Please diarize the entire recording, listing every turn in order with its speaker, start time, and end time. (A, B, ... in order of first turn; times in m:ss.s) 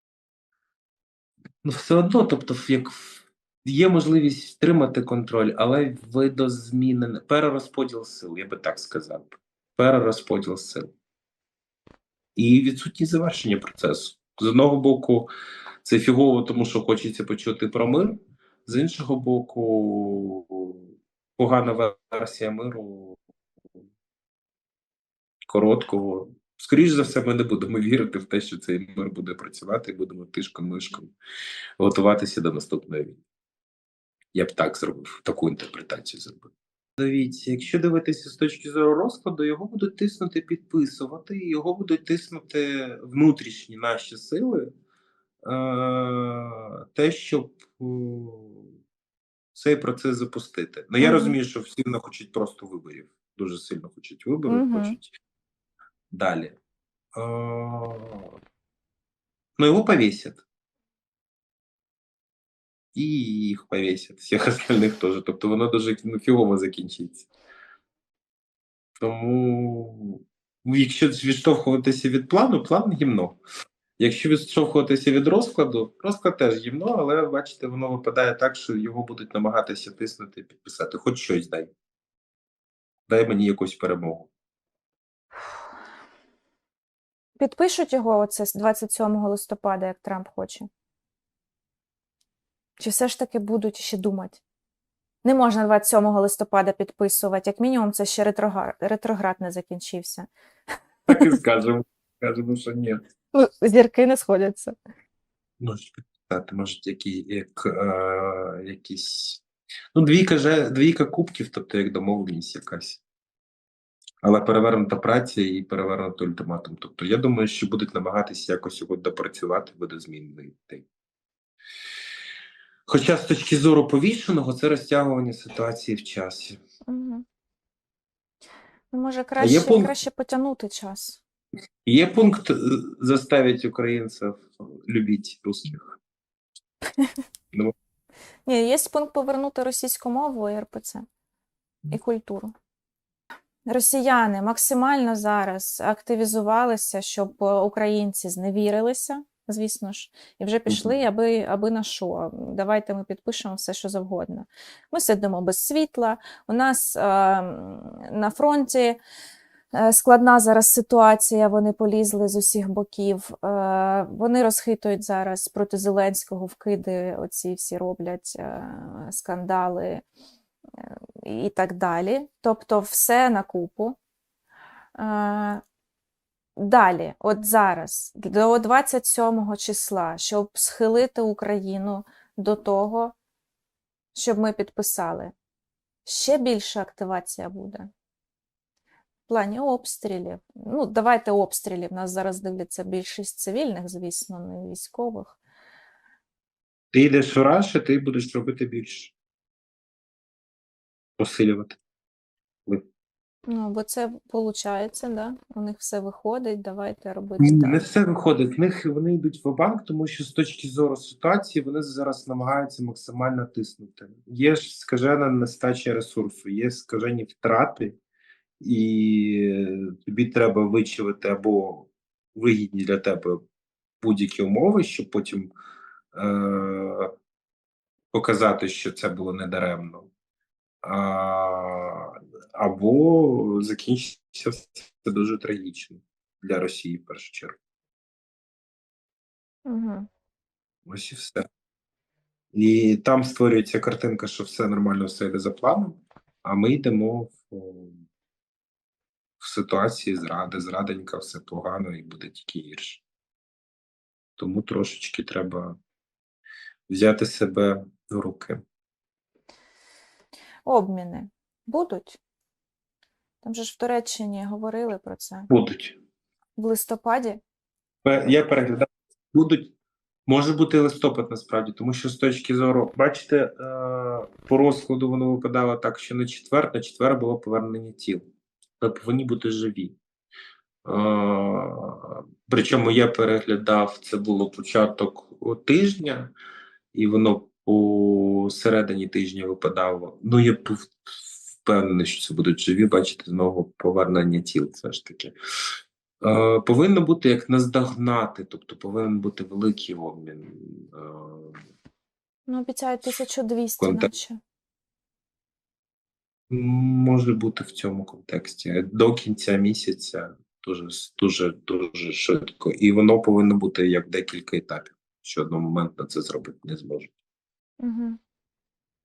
0:01.6-0:10.9 A
0:12.4-0:15.3 A
0:15.8-0:23.2 A
0:25.5-0:31.1 A
0:31.8-0:33.2 A
0:34.3-0:44.7 A
0:45.4-0:48.7 A
0:49.5-0:55.1 A
0:51.0-0:51.4 B
0:54.5-0:55.0 B
0:56.1-0:56.6 A
0:57.2-0:58.3 A
0:59.6-1:00.4 A
1:02.9-1:07.3 A
1:09.0-1:13.4 A
1:14.0-1:21.7 A
1:23.1-1:24.3 A
1:27.4-1:30.7 B
1:32.8-1:34.4 B
1:35.2-1:40.3 B
1:41.1-1:43.0 A
1:43.3-1:44.8 B
1:45.6-1:49.4 A
1:50.0-1:53.0 A
1:54.2-2:00.9 A
2:02.9-2:06.6 A
2:06.9-2:07.2 B
2:08.9-2:11.2 B
2:09.4-2:09.9 A
2:11.9-2:16.0 A
2:18.5-2:21.0 B
2:21.9-2:22.5 B
2:23.7-2:39.0 B
2:30.7-2:31.0 A
2:39.7-2:50.0 B
2:50.8-2:54.0 B
2:55.0-2:55.6 B
2:56.6-3:03.2 B
3:04.1-3:05.3 B
3:06.1-3:07.9 B
3:09.3-3:15.4 B
3:16.9-3:19.1 A
3:21.2-3:21.8 A
3:23.5-3:27.9 B
3:27.4-3:38.0 A
3:38.6-3:43.4 A
3:44.0-3:45.5 A
3:46.1-3:47.1 A
3:48.1-3:50.1 A
3:50.8-3:57.6 A
3:59.7-4:00.1 B
4:00.9-4:01.4 A
4:02.5-4:08.0 A
4:09.4-4:13.0 A
4:14.4-4:15.8 A
4:16.9-4:18.6 A
4:20.7-4:22.2 B
4:23.4-4:25.5 B
4:25.5-4:26.0 A
4:26.6-4:27.4 B
4:28.0-4:29.7 A
4:30.3-4:38.2 A
4:38.8-4:40.0 A
4:40.8-4:46.3 A
4:46.9-4:51.0 A
4:51.6-4:55.3 A
4:56.2-5:01.6 A
5:02.5-5:04.4 B
5:03.8-5:04.1 A
5:06.5-5:17.1 A
5:17.8-5:18.2 B